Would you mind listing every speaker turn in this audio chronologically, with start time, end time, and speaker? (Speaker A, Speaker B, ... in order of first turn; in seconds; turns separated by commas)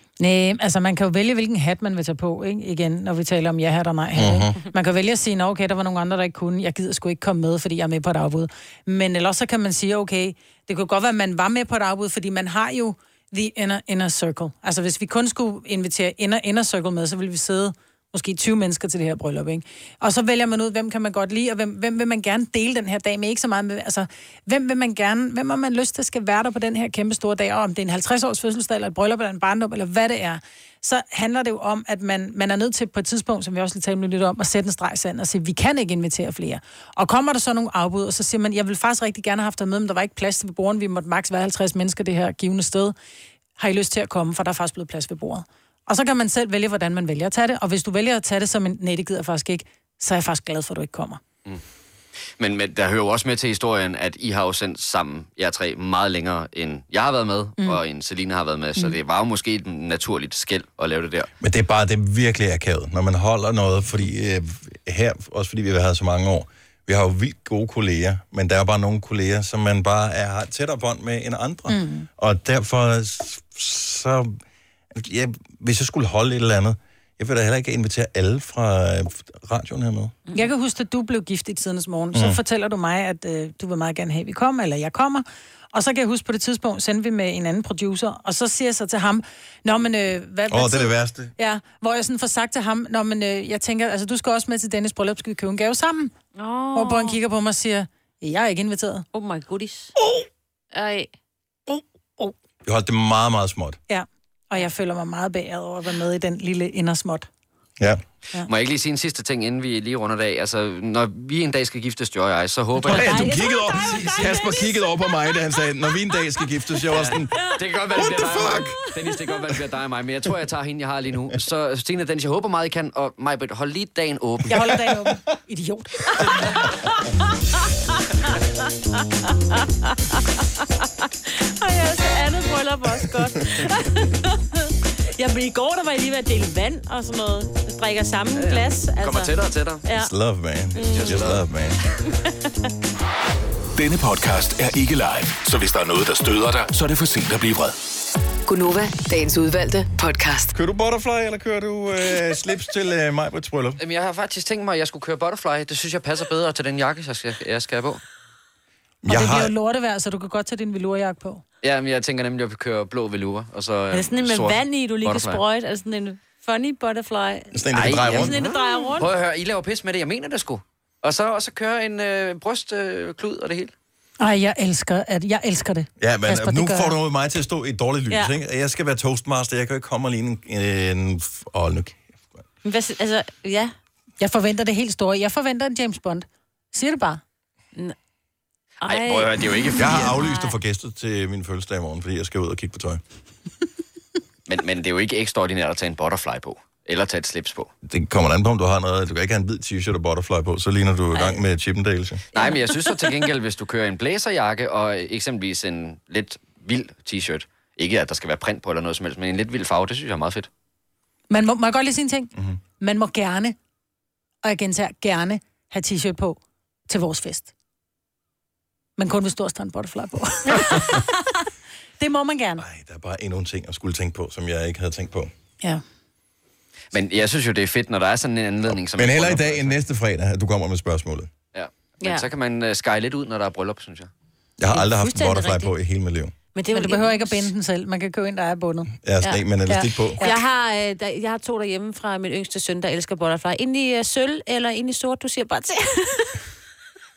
Speaker A: 0.2-42.9, Speaker B: 4.1-4.6, Speaker A: 43.6-51.2, Speaker C: 52.4-61.3, Speaker B: 61.4-74.4, Speaker A: 71.7-72.1, Speaker B: 74.9-80.1, Speaker A: 80.3-96.1, Speaker B: 82.1-82.4, Speaker B: 90.5-91.3, Speaker D: 96.3-97.2, Speaker A: 96.7-99.0, Speaker D: 99.1-99.9, Speaker D: 100.7-101.1, Speaker B: 102.6-103.8, Speaker A: 103.9-107.3, Speaker C: 108.4-114.4, Speaker D: 112.8-114.8, Speaker B: 112.8-117.4, Speaker C: 116.9-124.7, Speaker B: 118.2-118.7, Speaker A: 124.5-126.3, Speaker D: 129.2-139.3, Speaker C: 138.3-139.9, Speaker B: 139.9-141.8, Speaker D: 140.8-141.2, Speaker C: 140.8-141.4, Speaker E: 143.8-147.8, Speaker F: 148.5-150.5, Speaker B: 150.5-153.8, Speaker C: 153.8-158.0, Speaker B: 159.0-159.5, Speaker A: 159.1-161.4, Speaker C: 161.6-165.4, Speaker D: 163.9-169.1, Speaker B: 167.5-168.3, Speaker C: 167.7-173.7, Speaker A: 174.2-176.9, Speaker B: 176.0-182.2, Speaker D: 178.1-178.3, Speaker D: 182.6-183.7, Speaker A: 184.2-187.2, Speaker C: 188.8-190.2, Speaker D: 188.8-190.6, Speaker B: 189.8-193.0, Speaker C: 194.5-197.7, Speaker B: 197.8-202.2, Speaker C: 202.3-210.5, Speaker D: 202.3-203.2, Speaker A: 211.3-213.6, Speaker A: 214.4-217.5, Speaker A: 219.0-221.1, Speaker A: 222.0-222.6, Speaker B: 222.6-225.3, Speaker C: 226.9-229.8, Speaker B: 228.7-231.3, Speaker C: 231.5-234.1, Speaker D: 232.0-232.3, Speaker B: 234.6-236.3, Speaker D: 234.7-235.7, Speaker D: 236.5-237.5, Speaker A: 236.7-238.9, Speaker B: 239.0-240.2, Speaker D: 239.2-246.4, Speaker A: 239.7-240.4